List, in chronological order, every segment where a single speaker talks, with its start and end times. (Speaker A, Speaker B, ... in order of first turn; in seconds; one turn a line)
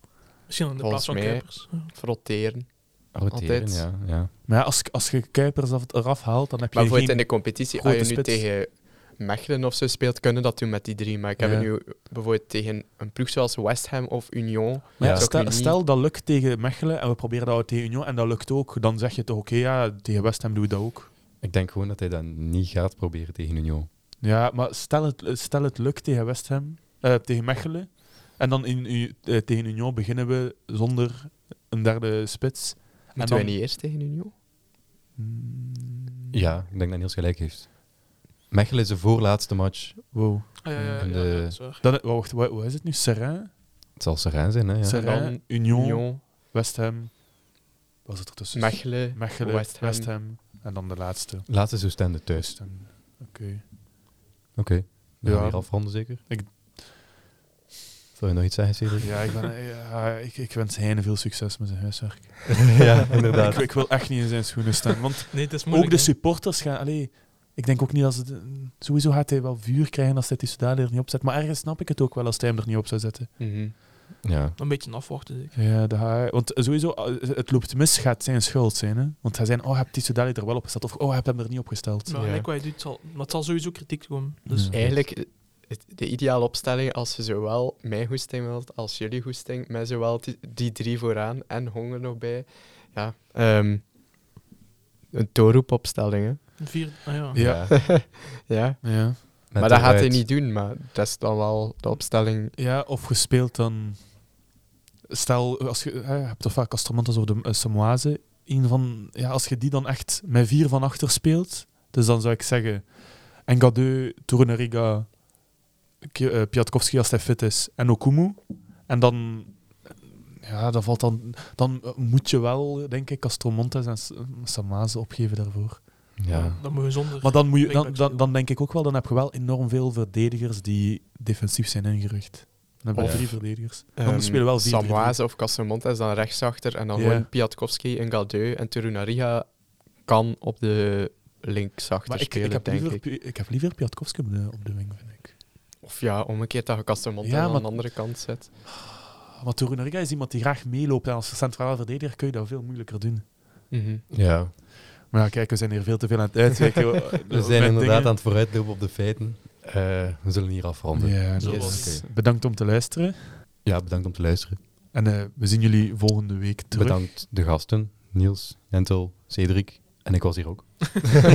Speaker A: 0.5-1.9
Speaker B: 0.8-3.9
Speaker C: 3.1-4.3
Speaker D: 4.4-8.5
Speaker B: 6.7-15.8
Speaker C: 11.4-11.7
Speaker C: 15.0-15.3
Speaker D: 15.0-21.1
Speaker C: 21.4-23.9
Speaker D: 24.2-33.6
Speaker B: 33.1-34.3
Speaker D: 35.1-36.4
Speaker C: 36.3-41.6
Speaker D: 40.1-43.6
Speaker A: 40.6-41.8
Speaker C: 44.0-45.2
Speaker D: 44.8-47.4
Speaker B: 44.9-46.2
Speaker D: 48.0-53.7
Speaker B: 48.5-50.1
Speaker C: 51.5-52.6
Speaker C: 54.5-56.2
Speaker D: 55.2-56.6
Speaker C: 58.1-59.2
Speaker D: 59.0-73.3
Speaker C: 62.5-63.8
Speaker A: 65.3-66.1
Speaker B: 73.4-73.7
Speaker C: 74.2-74.6
Speaker A: 74.6-75.5
Speaker D: 75.5-82.1
Speaker A: 82.0-84.7
Speaker B: 82.1-82.5
Speaker D: 84.5-84.7
Speaker C: 84.7-85.0
Speaker B: 84.7-93.9
Speaker B: 95.1-97.2
Speaker A: 96.6-97.5
Speaker C: 97.3-97.9
Speaker D: 97.3-98.0
Speaker B: 97.7-102.5
Speaker D: 98.8-99.2
Speaker C: 99.5-100.3
Speaker D: 102.5-104.2
Speaker D: 105.1-115.5
Speaker D: 116.0-135.2
Speaker C: 126.2-126.7
Speaker A: 126.3-128.3
Speaker C: 132.9-133.3
Speaker B: 132.9-143.0
Speaker D: 136.9-137.3
Speaker D: 142.1-145.4
Speaker B: 145.8-148.5
Speaker D: 147.2-153.3
Speaker B: 153.7-154.1
Speaker C: 154.1-154.5
Speaker D: 155.0-158.1
Speaker C: 157.3-162.1
Speaker D: 160.9-163.4
Speaker A: 161.4-162.0
Speaker C: 163.6-164.6
Speaker D: 164.9-167.1
Speaker C: 166.7-171.2